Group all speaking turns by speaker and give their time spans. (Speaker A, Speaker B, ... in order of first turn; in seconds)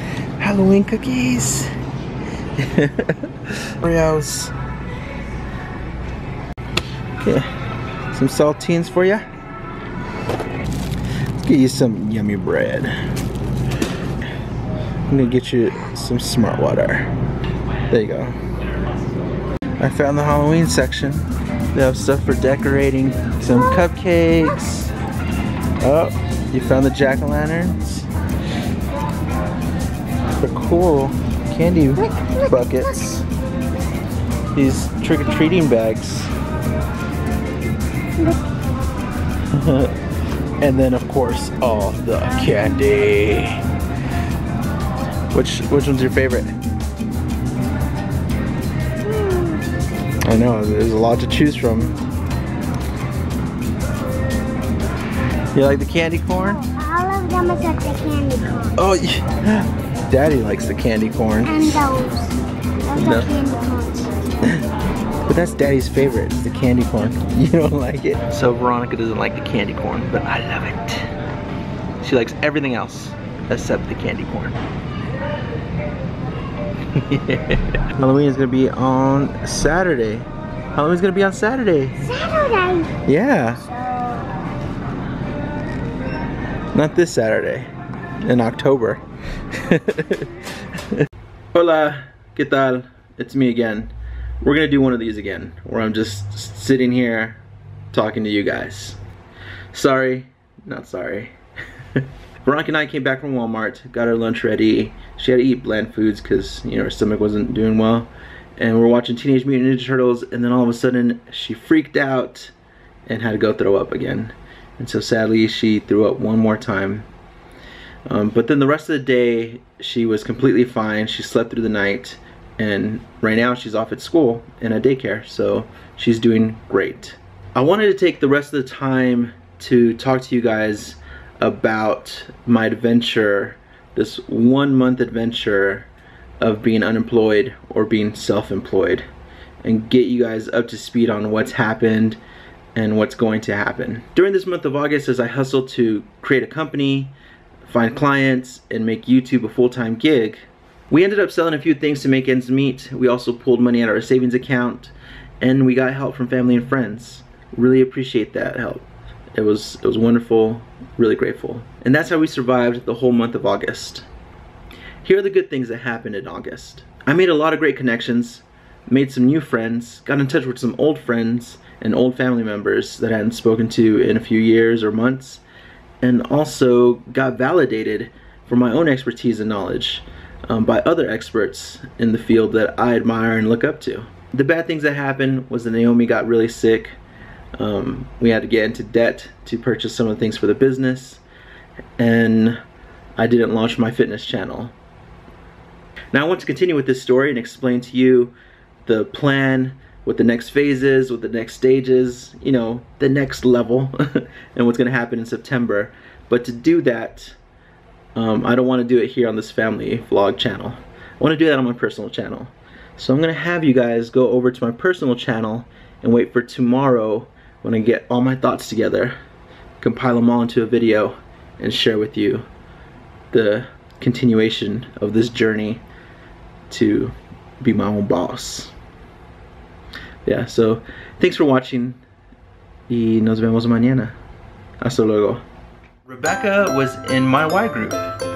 Speaker A: 0.4-1.7, 2.5-4.5, 7.2-7.5, 8.1-9.2, 11.4-13.0, 15.1-17.1, 17.9-18.4, 19.8-24.9, 25.8-28.1, 30.4-33.2, 34.5-36.3, 39.5-40.0, 40.6-43.6, 45.3-46.5, 50.2-52.0, 55.5-56.6, 58.8-61.8, 63.0-63.3, 65.3-71.1, 72.0-74.6, 76.9-82.0, 83.0-83.6, 86.7-87.7, 88.2-91.0, 91.5-97.4, 97.9-99.0, 99.7-101.3, 102.0-112.5, 113.0-117.1, 118.1-135.9, 136.4-139.1, 139.6-142.2, 142.7-147.1, 147.6-164.1, 165.0-175.4, 176.0-187.0, 187.6-191.2, 192.0-192.6, 193.2-194.7, 196.1-198.3, 198.8-207.3, 208.1-219.1, 219.8-222.4, 223.3-225.8, 226.7-228.7, 230.2-232.0, 232.9-234.2, 234.8-235.4, 236.1-238.1
Speaker B: 49.0-49.6, 56.6-58.8, 61.4-64.1, 82.0-82.9, 83.6-84.3